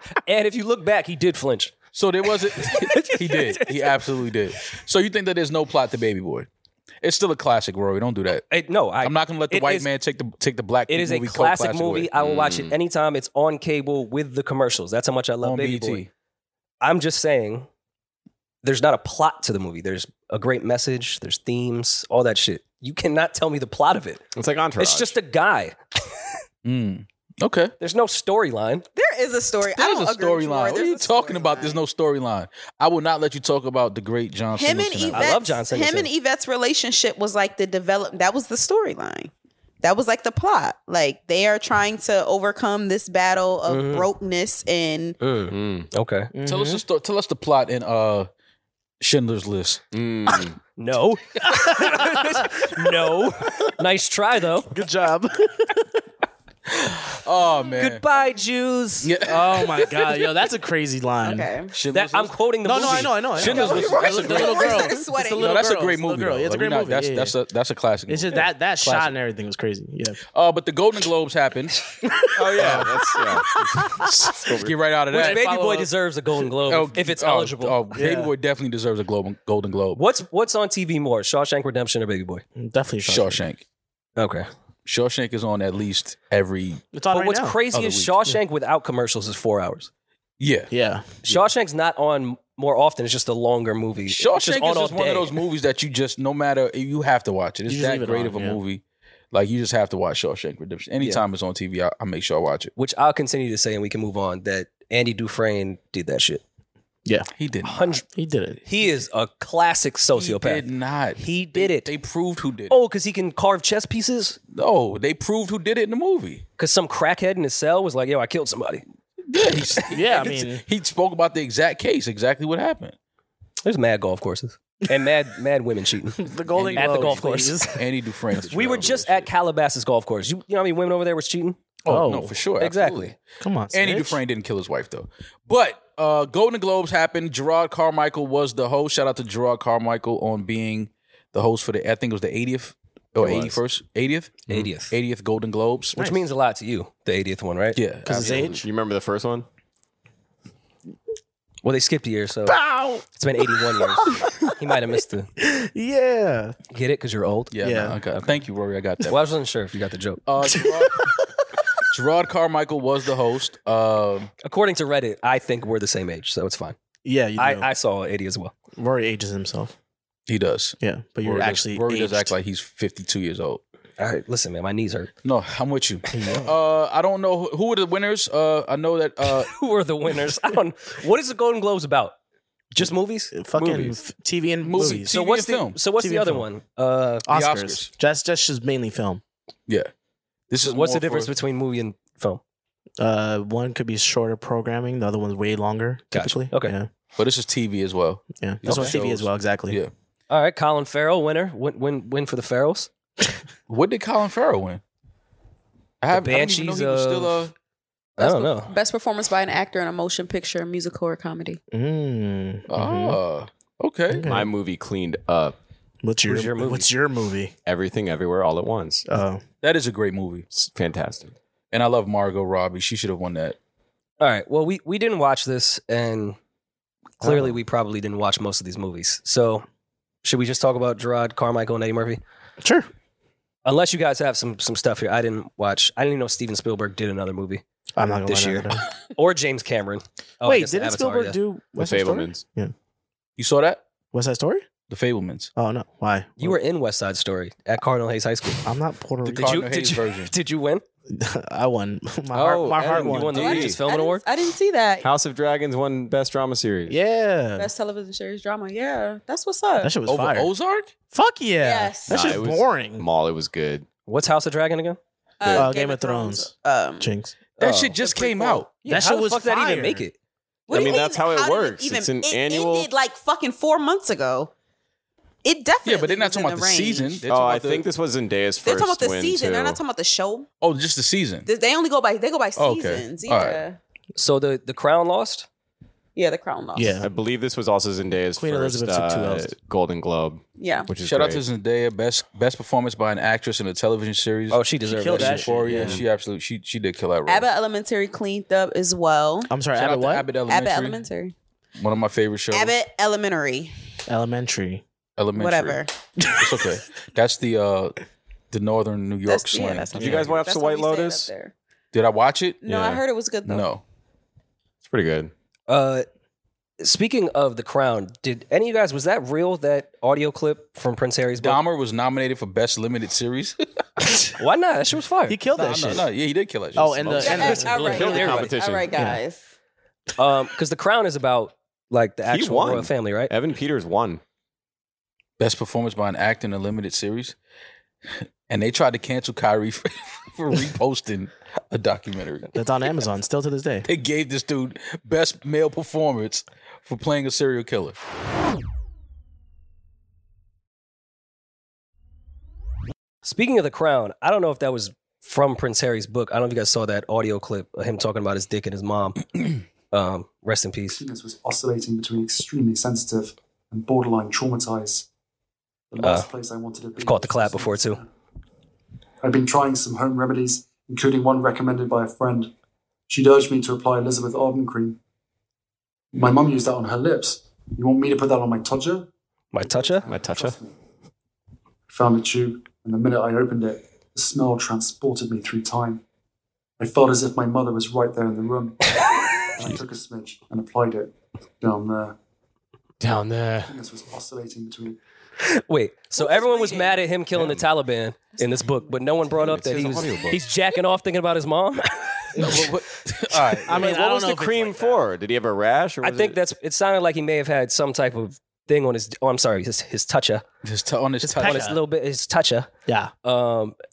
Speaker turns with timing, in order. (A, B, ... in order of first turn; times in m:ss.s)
0:00.1-0:01.8 A
0:01.9-0:06.5 B
0:02.8-0:03.7 A
0:07.0-0:08.5 B
0:08.5-0:09.9 A
0:09.0-0:12.1 B
0:10.9-0:16.1 A
0:12.2-0:12.7 C
0:15.4-0:16.1 B
0:16.8-0:17.7 A
0:18.6-0:24.2 A
0:24.4-0:25.2 C
0:24.8-0:25.8 A
0:26.6-0:27.7 B
0:27.8-0:28.8 A
0:29.0-0:31.8 D
0:29.8-0:35.4 B
0:34.6-0:39.3 D
0:35.1-0:36.1 A
0:39.8-0:45.2 D
0:43.7-0:44.1 A
0:45.2-0:46.3 A
0:45.5-0:45.9 C
0:46.3-0:46.8 E
0:46.5-0:48.3 B
0:49.0-0:49.8 B
0:49.9-0:50.6 C
0:50.8-0:54.7 A
0:51.7-0:52.1 E
0:54.7-0:56.0 E
0:56.7-0:58.0 B
0:57.8-0:59.1 A
0:59.0-1:00.2 B
0:59.2-1:01.5 E
1:01.2-1:01.7 D
1:01.7-1:09.2 B
1:01.9-1:03.9 A
1:02.6-1:07.3 E
1:03.4-1:05.5 D
1:08.1-1:10.2 E
1:10.3-1:11.9 B
1:12.0-1:12.8 E
1:12.4-1:14.7 C
1:12.6-1:13.1 B
1:13.8-1:15.9 B
1:15.1-1:17.8 A
1:16.7-1:20.0 B
1:17.9-1:18.3 E
1:20.0-1:22.4 A
1:22.6-1:23.5 E
1:23.0-1:23.6 B
1:24.2-1:24.5 A
1:24.9-1:26.8 B
1:26.9-1:27.6 E
1:27.1-1:29.9 A
1:27.7-1:28.1 B
1:30.4-1:30.7 B
1:30.7-1:31.3 E
1:31.2-1:35.4 A
1:34.1-1:42.7 B
1:37.7-1:38.6 E
1:42.8-1:46.4 A
1:47.4-1:48.0 B
1:47.6-1:48.0 A
1:48.2-1:48.6 E
1:48.7-1:50.6 A
1:50.2-1:52.8 B
1:51.2-1:51.9 A
1:52.7-1:54.4 A
1:54.5-1:56.4 B
1:56.6-1:58.8 A
1:59.3-2:03.0 B
1:59.9-2:00.6 E
2:03.6-2:07.6 A
2:06.2-2:07.8 E
2:06.5-2:09.3 B
2:08.5-2:11.6 A
2:11.8-2:13.2 B
2:11.9-2:12.4 E
2:12.6-2:13.1 A
2:13.4-2:14.2 E
2:13.7-2:26.0 B
2:23.2-2:23.5 C
2:24.5-2:24.9 A
2:26.0-2:26.3 E
2:26.0-2:27.8 A
2:27.8-2:28.4 B
2:28.0-2:28.6 E
2:28.2-2:29.5 C
2:31.6-2:32.6 A
2:32.5-2:33.0 E
2:33.1-2:35.3 A
2:33.6-2:34.6 E
2:35.4-2:36.6 E
2:36.7-2:37.5 A
2:37.5-2:39.2 B
2:37.6-2:38.0 E
2:39.1-2:40.2 A
2:40.3-2:41.1 B
2:40.4-2:41.2 E
2:41.9-2:44.3 B
2:44.4-2:46.8 A
2:47.0-2:47.7 E
2:47.4-2:48.5 A
2:48.8-2:49.7 E
2:50.3-2:53.6 B
2:50.8-2:52.4 E
2:54.0-2:55.1 A
2:55.2-2:59.5 B
2:56.1-2:56.6 E
2:59.5-3:02.2 A
3:02.8-3:04.0 A
3:02.8-3:05.2 E
3:04.6-3:05.8 B
3:04.8-3:07.3 A
3:06.0-3:06.5 E
3:07.3-3:09.2 E
3:07.3-3:07.9 B
3:10.5-3:11.3 B
3:10.6-3:12.4 A
3:13.0-3:16.9 E
3:16.1-3:16.8 A
3:17.2-3:19.9 B
3:18.4-3:19.8 E
3:18.6-3:19.0 A
3:20.3-3:22.9 A
3:23.7-3:24.8 B
3:26.0-3:27.5 B
3:26.1-3:27.5 A
3:28.2-3:28.7 A
3:28.2-3:31.6 D
3:31.7-3:33.2 E
3:32.7-3:34.3 B
3:34.1-3:34.5 E
3:34.3-3:35.6 C
3:36.0-3:37.5 E
3:36.2-3:36.9 A
3:37.7-3:39.0 C
3:39.1-3:39.4 E
3:39.6-3:40.5 B
3:40.5-3:41.4 C
3:41.7-3:43.6 B
3:44.2-3:46.4 A
3:47.2-3:49.6 A
3:47.2-3:47.6 E
3:50.2-3:52.2 A
3:52.6-3:52.9 E
3:53.6-3:57.6 A
3:58.0-3:58.8 E
3:58.3-4:01.4 A
4:00.4-4:02.7 E
4:01.8-4:02.4 C
4:03.4-4:03.8 B
4:04.1-4:04.7 E
4:04.9-4:05.5 B
4:05.6-4:06.6 E
4:06.4-4:08.7 A
4:08.6-4:09.6 E
4:09.2-4:10.3 B
4:09.4-4:10.8 A
4:11.1-4:13.5 E
4:12.3-4:13.8 C
4:12.4-4:14.2 A
4:13.4-4:15.1 D
4:15.0-4:17.0 C
4:16.9-4:17.7 E
4:17.6-4:19.9 D
4:19.8-4:20.5 E
4:20.1-4:20.9 B
4:21.1-4:23.1 E
4:21.6-4:22.3 D
4:22.1-4:23.9 C
4:24.1-4:25.0 A
4:25.4-4:27.1 D
4:25.5-4:27.4 E
4:27.6-4:28.0 A
4:27.6-4:28.7 B
4:28.0-4:28.6 D
4:28.8-4:30.2 A
4:28.8-4:30.1 E
4:30.7-4:34.5 D
4:30.7-4:32.9 C
4:35.4-4:37.2 D
4:35.8-4:37.8 B
4:37.3-4:39.8 C
4:38.6-4:40.5 D
4:40.6-4:41.5 B
4:41.5-4:43.8 D
4:42.6-4:43.6 B
4:44.2-4:45.5 A
4:46.2-4:47.0 D
4:46.8-4:47.1 E
4:47.0-4:51.4 C
4:48.4-4:49.5 E
4:50.6-4:50.9 D
4:51.0-4:57.5 B
4:54.5-4:55.7 A
4:54.9-4:56.0 E
4:57.3-4:59.5 D
4:59.5-5:00.3 E
4:59.8-5:01.0 B
5:00.5-5:01.3 D
5:01.8-5:02.7 B
5:02.5-5:03.7 D
5:04.1-5:04.8 E
5:05.2-5:08.0 B
5:05.4-5:05.9 D
5:08.5-5:10.3 B
5:09.3-5:11.5 D
5:09.9-5:11.3 C
5:11.9-5:13.8 B
5:12.6-5:13.6 D
5:14.8-5:15.3 C
5:15.7-5:16.1 A
5:16.8-5:21.6 A
5:21.4-5:23.6 B
5:24.4-5:25.4 A
5:25.3-5:26.1 E
5:25.6-5:27.5 B
5:26.8-5:28.1 E
5:27.0-5:29.0 C
5:27.2-5:29.4 D
5:27.4-5:28.6 A
5:28.9-5:29.2 E
5:30.2-5:33.3 A
5:32.3-5:34.2 C
5:35.4-5:37.4 B
5:38.5-5:42.5 B
5:42.5-5:43.9 E
5:43.8-5:48.0 B
5:53.2-5:59.4 A
5:59.9-6:01.0 A
6:00.9-6:05.1 F
6:05.9-6:08.1 F
6:06.0-6:06.3 A
6:07.0-6:08.0 A
6:09.2-6:12.5 F
6:13.1-6:15.0 F
6:16.1-6:19.1 F
6:19.5-6:20.1 A
6:19.6-6:20.8 F
6:20.1-6:20.6 C
6:21.9-6:26.0 F
6:26.8-6:32.2 F
6:33.0-6:33.7 C
6:33.7-6:35.0 F
6:35.5-6:42.4 A
6:36.2-6:37.0 D
6:37.3-6:37.6 C
6:39.3-6:40.4 C
6:42.4-6:44.0 B
6:42.4-6:42.7 E
6:43.6-6:45.0 E
6:43.7-6:46.4 C
6:46.0-6:50.4 A
6:50.6-6:51.8 B
6:51.2-6:51.8 E
6:51.4-6:52.7 A
6:52.9-6:53.1 E
6:53.2-6:53.8 A